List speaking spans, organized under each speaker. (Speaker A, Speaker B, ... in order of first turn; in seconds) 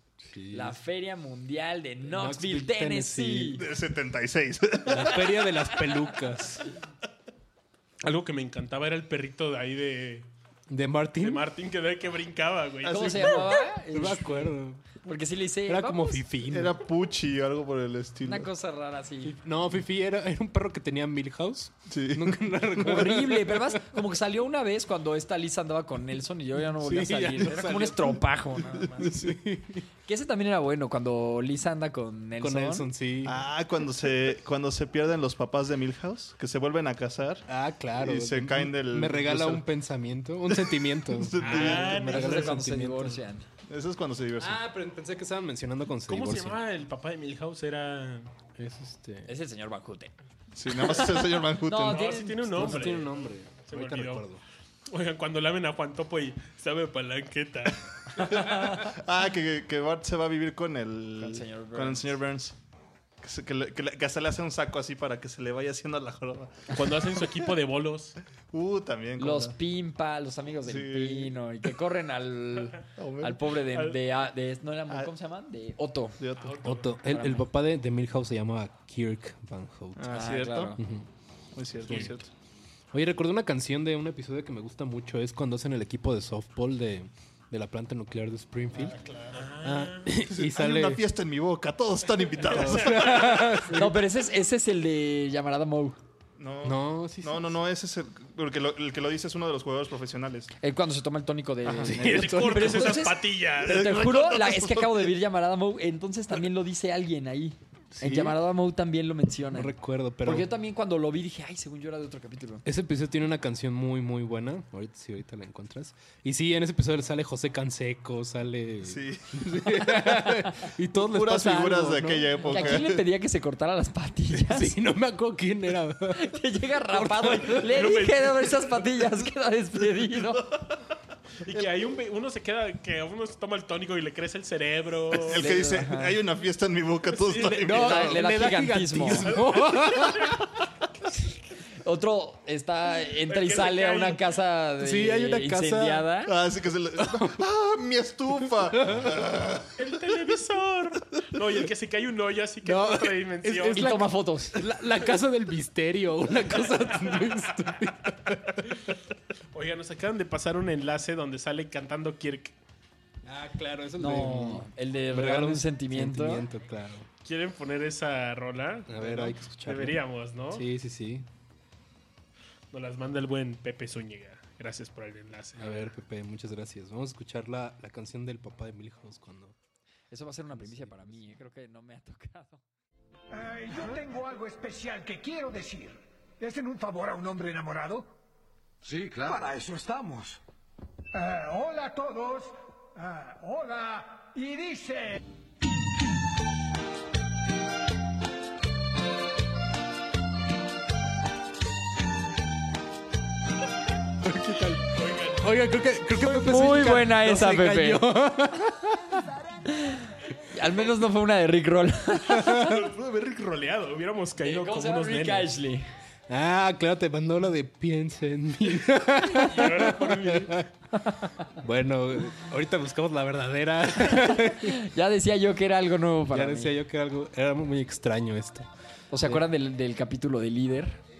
Speaker A: 0.2-0.8, 2.0-3.6, 4.9-6.6, 10.7-11.4, 13.9-14.9, 15.7-16.8, 19.2-23.9, 26.8-28.3, 29.0-29.8, 32.4-33.4, 37.5-43.2, 44.4-46.6, 48.6-49.3, 52.5-54.4, 76.6-80.0, 80.8-81.0, 81.9-82.2, 82.9-88.9, 89.6-91.0, 92.5-94.0, 96.6-97.4, 101.7-103.0, 107.9-108.4, 109.5-110.5, 112.6-122.8, 124.3-126.3, 126.9-127.7, 137.5-140.3, 144.8-146.1, 147.0-147.4, 148.8-149.1, 152.6-158.6, 163.2-167.1, 168.9-171.2, 175.6-179.5, 180.5-181.2, 204.2-209.2, 216.3-220.7, 221.6-224.8, 226.3-228.7
Speaker B: 0.5-3.6, 12.9-16.2, 18.2-19.4, 22.8-29.1, 30.1-32.9, 42.1-43.4, 49.2-50.1, 51.6-52.9, 58.3-58.8, 61.2-62.1, 69.2-76.2, 77.1-77.5, 80.1-80.8, 93.7-96.0, 100.6-109.7, 110.2-112.6, 122.4-124.7, 126.1-130.4, 135.3-136.2, 137.7-139.3, 141.8-146.3, 153.7-154.6, 164.0-166.5, 180.1-182.6, 206.2-208.0, 209.7-212.7, 214.4-215.8, 221.0-221.2, 224.1-226.7, 229.1-231.0
Speaker C: 3.6-5.2, 16.5-18.5, 21.9-22.8, 33.2-37.4, 38.0-39.6, 40.7-42.2, 43.7-44.6, 50.5-52.1, 58.9-62.5, 63.2-66.8, 68.5-69.5, 70.7-71.3, 73.0-73.4, 76.2-76.7, 80.0-80.7, 81.5-82.3, 88.7-89.4, 90.3-93.3, 96.4-100.5, 103.6-105.1, 118.8-119.7, 121.0-123.0, 135.1-138.2, 146.3-149.7
Speaker D: 8.0-10.3, 11.2-13.6, 41.4-42.4, 46.1-48.3, 51.9-54.2, 54.9-58.2, 66.7-68.2, 76.4-76.9, 89.3-90.1, 92.5-93.5, 102.1-104.0, 127.7-128.6, 131.4-135.5, 137.2-137.7, 139.3-140.2, 143.3-144.2, 149.8-153.9, 159.5-162.5, 167.2-170.6, 172.7-175.7, 204.9-205.4, 212.6-215.5, 219.5-220.6
Speaker E: 183.3-188.1, 188.8-190.4, 191.1-195.2